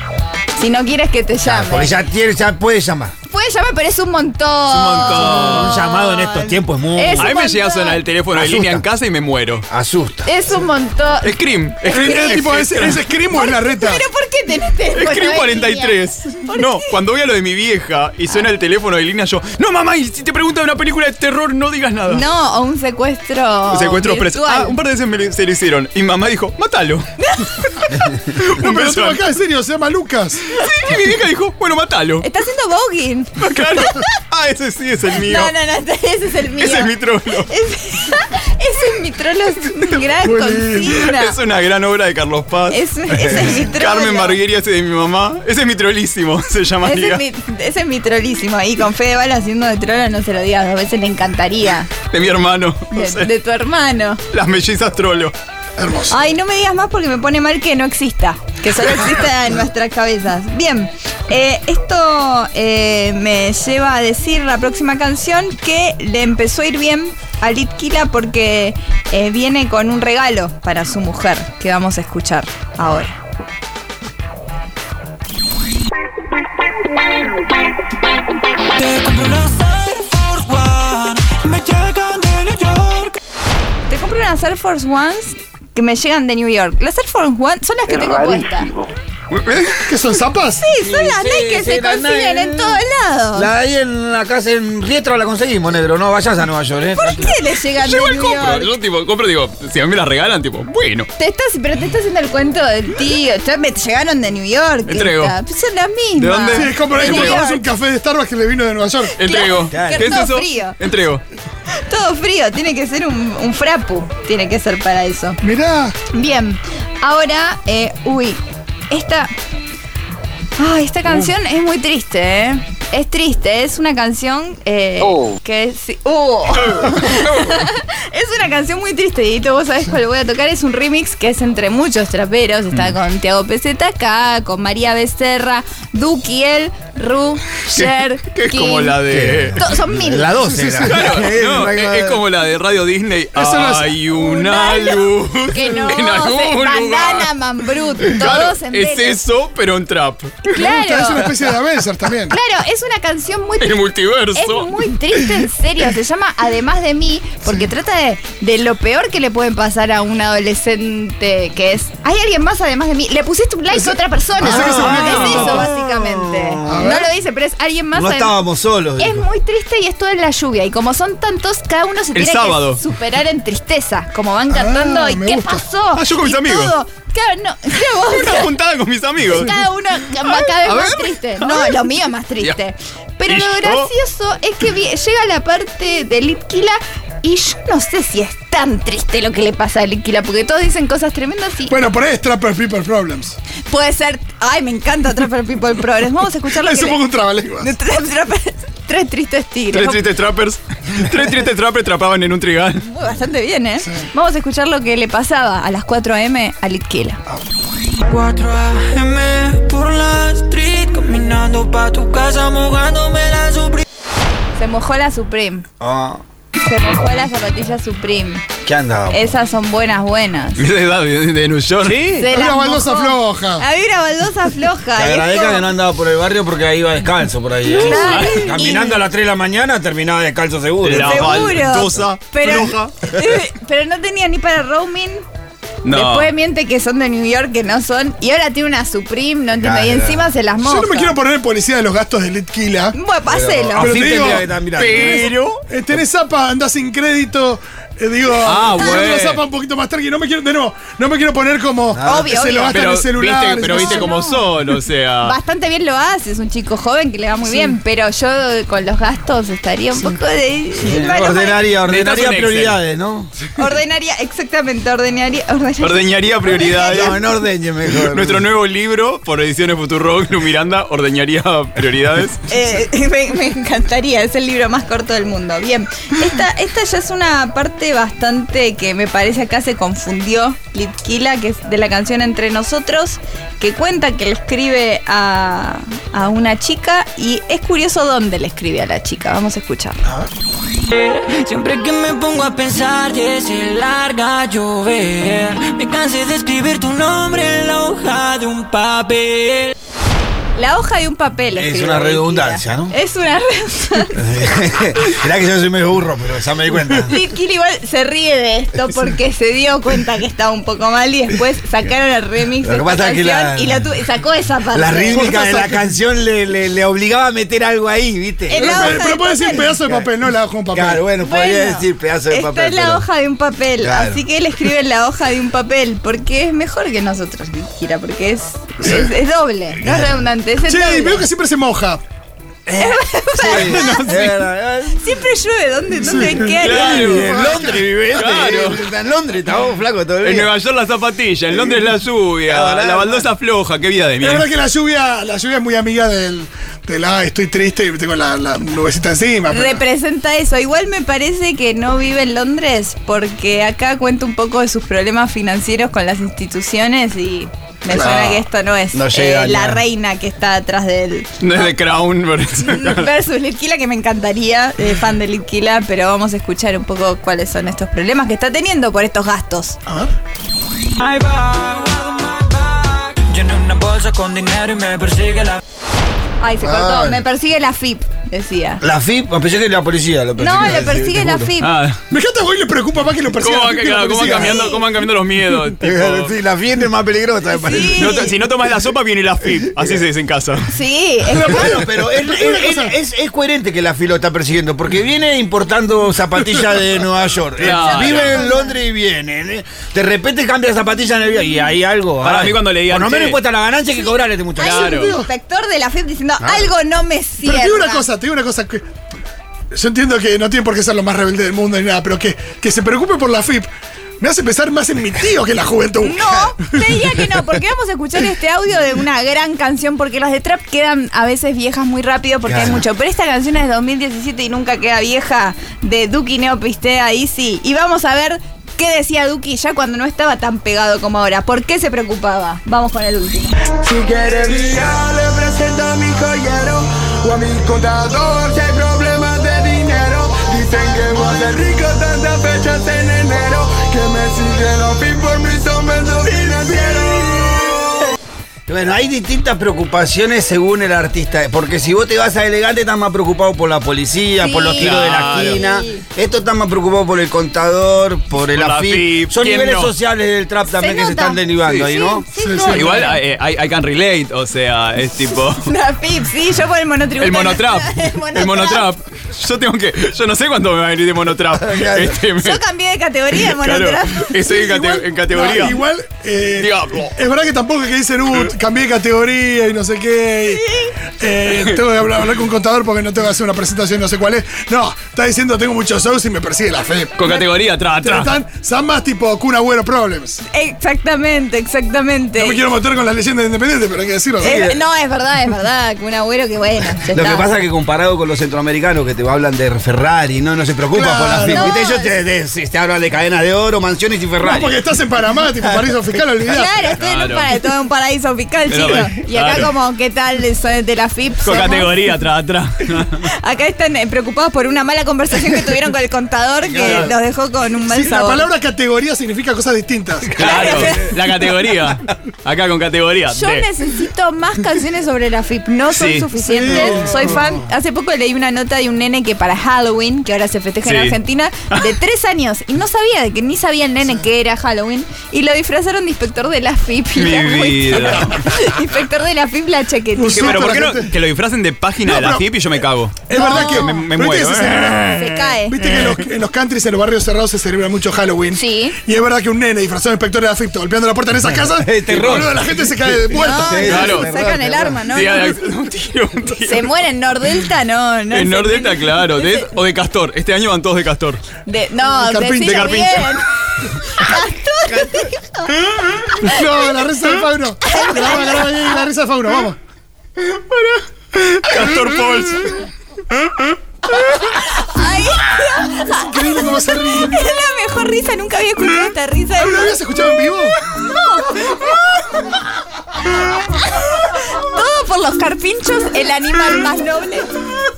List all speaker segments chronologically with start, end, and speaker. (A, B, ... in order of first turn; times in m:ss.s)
0:00.6-0:02.0 A
0:01.4-0:03.1 B
0:03.3-0:08.0 A
0:04.7-0:05.8 C
0:05.0-0:07.3 B
0:07.2-0:09.7 C
0:08.3-0:08.9 B
0:09.7-0:10.3 B
0:10.2-0:16.9 A
0:11.2-0:13.0 C
0:11.9-0:14.0 D
0:14.9-0:22.2 C
0:22.1-0:24.8 A
0:23.7-0:27.1 C
0:27.2-0:28.0 A
0:28.2-0:29.3 C
0:28.6-0:30.4 D
0:30.5-0:32.3 C
0:32.2-0:34.1 A
0:33.4-0:35.5 C
0:35.1-0:41.4 A
0:36.6-0:37.5 C
0:40.2-0:41.1 D
0:40.9-0:47.2 C
0:42.7-0:44.4 A
0:46.8-0:51.9 A
0:52.1-0:53.3 C
0:52.9-0:54.2 A
0:54.3-0:55.4 C
0:55.8-0:56.2 D
0:56.1-1:13.2 A
1:18.7-1:23.2 E
1:23.9-1:28.7 A
1:29.3-1:30.0 C
1:29.8-1:30.6 D
1:30.6-1:33.5 A
1:30.8-1:32.8 B
1:33.3-1:37.4 B
1:37.0-1:38.7 A
1:37.8-1:41.1 C
1:41.2-1:47.7 A
1:44.9-1:45.4 C
1:46.2-1:47.4 C
1:46.5-1:49.2 D
1:49.2-1:51.2 C
1:49.2-1:50.8 A
1:49.7-1:50.2 B
1:51.7-1:55.4 A
1:55.4-1:56.0 D
1:56.1-1:59.3 A
2:00.6-2:19.0 A
2:06.6-2:07.6 C
2:17.7-2:19.6 C
2:19.1-2:22.2 B
2:19.6-2:20.3 A
2:20.5-2:21.1 D
2:20.8-2:27.3 C
2:23.3-2:24.1 D
2:24.2-2:29.1 A
2:28.0-2:30.6 C
2:30.5-2:31.3 A
2:30.5-2:32.4 D
2:32.3-2:48.4 A
2:33.6-2:34.7 C
2:43.7-2:45.7 D
2:44.4-2:46.9 B
2:44.6-2:45.6 C
2:46.6-2:47.1 D
2:48.0-2:49.2 B
2:49.0-2:58.5 A
2:52.1-2:52.8 C
2:54.5-2:55.6 D
2:56.0-2:56.8 C
2:58.1-2:59.5 C
2:59.3-3:11.8 A
3:00.2-3:01.9 C
3:03.3-3:03.9 C
3:11.7-3:13.4 D
3:13.6-3:17.0 A
3:16.5-3:17.7 D
3:17.6-3:20.0 A
3:19.7-3:22.8 C
3:22.8-3:27.2 A
3:28.0-3:33.8 E
3:34.5-3:35.6 A
3:35.8-3:36.2 B
3:36.6-3:38.4 A
3:38.6-3:39.3 B
3:39.1-3:40.6 A
3:40.6-3:42.3 C
3:42.0-3:45.6 A
3:42.3-3:43.6 D
3:45.0-3:51.6 B
3:47.7-3:49.1 A
3:47.8-3:48.5 C
3:50.8-3:52.9 C
3:50.9-3:55.2 A
3:55.8-3:56.3 C
3:55.9-4:01.2 A
3:59.5-4:00.3 B
4:00.6-4:03.0 D
4:02.9-4:04.4 A
4:03.3-4:05.3 B
4:03.8-4:14.1 D
4:04.7-4:05.6 C
4:08.4-4:09.4 C
4:11.9-4:12.3 B
4:12.0-4:13.0 A
4:12.7-4:15.4 C
4:13.6-4:14.5 A
4:15.2-4:21.6 A
4:20.8-4:23.3 B
4:21.9-4:22.8 C
4:23.6-4:27.2 A
4:25.8-4:27.2 C
4:26.6-4:28.5 B
4:27.9-4:32.4 C
4:32.5-4:50.0 A
4:50.8-4:59.7 E
5:00.5-5:04.2 A
5:01.6-5:02.9 B
5:04.1-5:07.2 B
5:07.0-5:15.3 A
5:12.6-5:14.0 B
5:14.7-5:19.0 B
5:15.1-5:15.9 D
5:18.5-5:19.7 A
5:18.5-5:21.0 D
5:20.7-5:23.1 B
5:21.2-5:31.2 A
5:23.8-5:24.2 B
5:28.8-5:29.1 D
5:29.8-5:30.2 B
5:30.6-5:32.0 D
5:32.7-5:35.2 B
5:32.8-5:34.2 A
5:33.4-5:34.4 C
5:35.0-5:37.4 A
5:36.0-5:37.8 D
5:36.5-5:38.9 C
5:36.5-5:40.5 B
5:40.2-5:44.5 C
5:41.5-5:43.3 B
5:44.2-5:49.8 D
5:49.5-6:01.7 A
5:57.9-5:58.4 D
5:58.9-5:59.8 B
6:01.4-6:03.1 C
6:02.6-6:09.8 A
6:10.9-6:15.6 E
6:16.4-6:18.8 A
6:16.6-6:17.2 B
6:18.8-6:21.5 B
6:20.4-6:21.7 A
6:21.6-6:22.0 C
6:22.1-6:24.7 D
6:23.4-6:26.3 C
6:24.3-6:24.8 A
6:25.8-6:28.2 B
6:27.5-6:28.4 A
6:27.8-6:30.6 C
6:30.7-6:31.8 A
6:31.3-6:32.9 D
6:31.4-6:44.9 B
6:37.6-6:38.4 C
6:37.6-6:38.8 A
6:42.2-6:43.4 C
6:44.6-6:48.0 A
6:44.6-6:45.2 C
6:44.7-6:45.3 D
6:46.4-6:46.7 B
6:47.4-6:48.8 D
6:49.7-6:53.7 D
6:54.2-6:57.3 D
6:56.0-7:13.5 A
7:02.5-7:02.9 B
7:13.9-7:27.6 F
7:28.7-7:42.2 B
7:34.4-7:36.0 A
7:34.8-7:35.6 C
7:38.5-7:39.9 C
7:40.7-7:43.2 A
7:41.6-7:41.9 C
7:42.4-7:43.1 D
7:42.7-7:45.7 C
7:45.6-7:48.9 A
7:47.2-7:52.6 C
7:51.6-7:52.2 B
7:52.3-7:55.0 A
7:53.3-7:55.8 C
7:55.3-8:00.6 D
7:56.6-7:57.2 C
8:00.5-8:01.0 A
8:01.2-8:07.2 D
8:07.2-8:08.4 C
8:08.0-8:10.4 D
8:10.5-8:12.6 A
8:12.4-8:14.6 D
8:14.4-8:14.8 B
8:14.4-8:17.5 A
8:17.1-8:24.8 B
8:20.9-8:21.8 D
8:21.5-8:22.1 A
8:24.4-8:26.8 D
8:26.4-8:32.0 A
8:26.9-8:27.5 C
8:28.7-8:29.7 C
8:31.4-8:33.3 C
8:33.1-8:38.5 A
8:36.7-8:37.1 C
8:37.8-8:41.0 D
8:40.3-8:43.6 C
8:40.4-8:41.2 A
8:40.7-8:41.0 B
8:43.3-9:00.7 A
8:45.9-8:46.9 C
8:46.3-8:47.6 D
8:50.8-8:51.1 C
8:57.2-8:58.4 C
9:00.1-9:01.1 D
9:00.3-9:05.2 C
9:02.0-9:02.5 D
9:03.3-9:14.1 D
9:03.3-9:04.1 A
9:05.1-9:05.8 A
9:05.8-9:06.2 C
9:08.5-9:09.0 A
9:11.8-9:15.0 B
9:13.3-9:15.6 A
9:13.8-9:14.3 C
9:15.1-9:16.9 C
9:16.6-9:19.7 A
9:18.3-9:21.4 C
9:21.6-9:27.1 A
9:22.2-9:23.3 D
9:22.6-9:23.4 C
9:26.3-9:29.8 D
9:27.8-9:29.1 A
9:30.4-9:33.6 C
9:34.2-9:40.0 A
9:36.1-9:37.4 D
9:39.6-9:40.8 D
9:40.9-9:42.6 A
9:43.4-9:47.6 A